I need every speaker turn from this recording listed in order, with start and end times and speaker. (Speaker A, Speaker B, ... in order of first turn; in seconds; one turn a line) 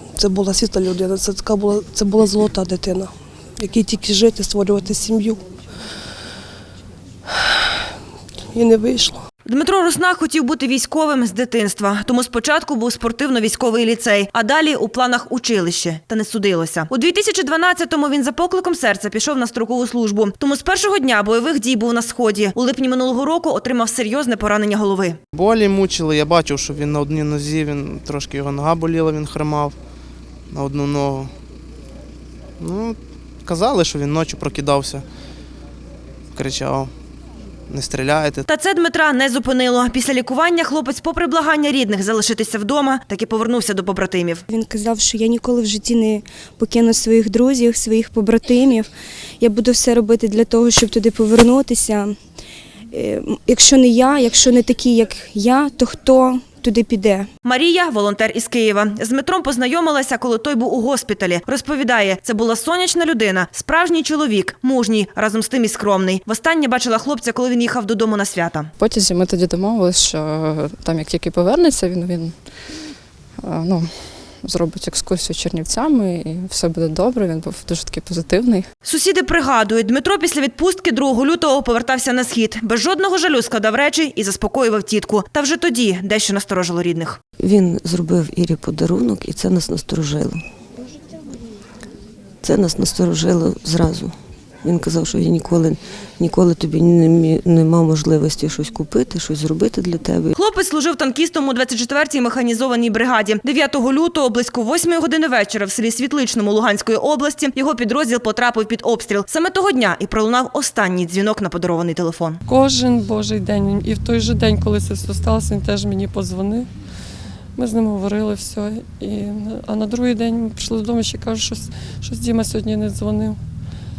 Speaker A: 0.2-5.4
Speaker A: 7.3-7.6
Speaker A: 8.5-9.2
Speaker B: 9.4-25.2
Speaker C: 25.3-29.8
Speaker C: 30.5-31.3
Speaker C: 32.6-35.0
Speaker C: 36.3-36.9
Speaker C: 37.7-38.4
Speaker B: 38.5-44.4
Speaker D: 44.5-48.9
Speaker D: 49.4-52.1
Speaker D: 52.9-57.3
Speaker B: 57.4-68.7
Speaker E: 68.8-72.4
Speaker E: 73.4-78.7
Speaker B: 78.8-87.2
Speaker F: 87.4-90.4
Speaker F: 92.4-100.3
Speaker B: 100.3-112.4
Speaker G: 112.5-116.7
Speaker G: 117.5-123.4